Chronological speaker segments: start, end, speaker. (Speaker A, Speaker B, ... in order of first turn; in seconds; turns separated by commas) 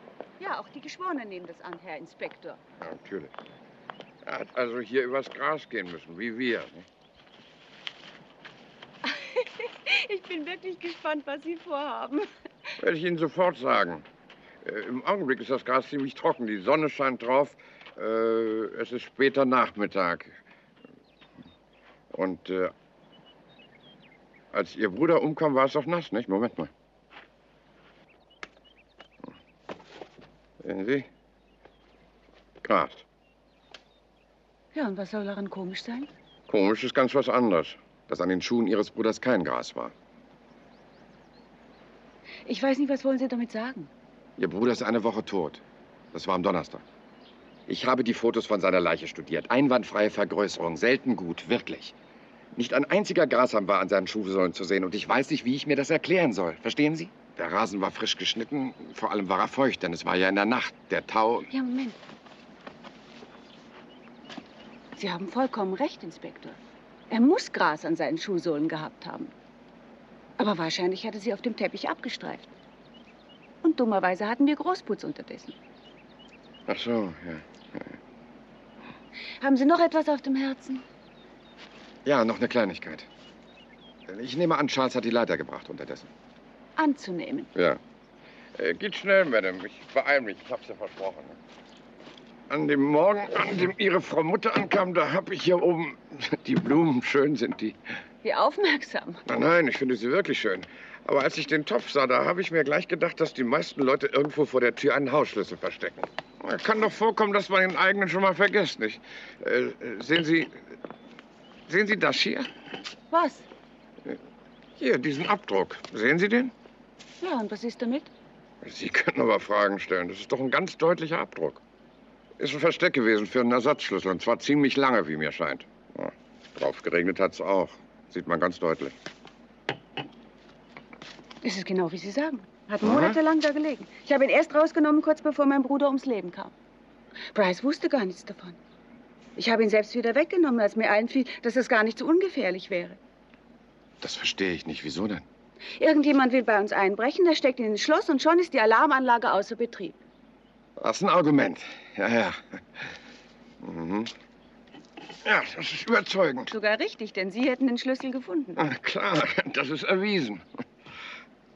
Speaker A: 0.4-2.6, Speaker B: 2.8-3.3, Speaker B: 4.2-6.9, Speaker A: 9.0-12.3, Speaker B: 12.8-14.1, Speaker B: 14.6-20.4, Speaker B: 22.1-22.7, Speaker B: 24.5-26.7, Speaker B: 30.6-31.1, Speaker B: 32.6-33.0, Speaker A: 34.7-36.1, Speaker B: 36.5-39.9, Speaker A: 42.5-43.9, Speaker B: 44.4-46.8, Speaker B: 47.7-52.0, Speaker B: 52.5-61.5, Speaker A: 61.5-62.0, Speaker A: 65.0-69.3, Speaker A: 70.4-72.5, Speaker A: 73.6-75.6, Speaker B: 76.7-78.0, Speaker A: 79.4-80.8, Speaker B: 82.0-83.1, Speaker B: 84.1-86.1, Speaker A: 86.8-87.5, Speaker B: 87.5-87.8, Speaker B: 88.6-91.4, Speaker B: 92.5-97.8, Speaker A: 98.2-99.2, Speaker B: 99.3-110.7, Speaker B: 111.7-112.5, Speaker A: 113.1-113.5, Speaker B: 114.8-116.5, Speaker A: 117.2-118.1, Speaker B: 118.6-121.6, Speaker B: 122.4-128.9, Speaker A: 131.4-136.5, Speaker B: 132.8-133.2, Speaker A: 137.3-138.6, Speaker A: 139.4-143.0, Speaker B: 144.0-145.3, Speaker A: 145.8-150.0, Speaker B: 150.8-152.4, Speaker B: 153.6-154.1, Speaker B: 155.2-156.5, Speaker A: 156.5-158.6, Speaker B: 158.6-160.4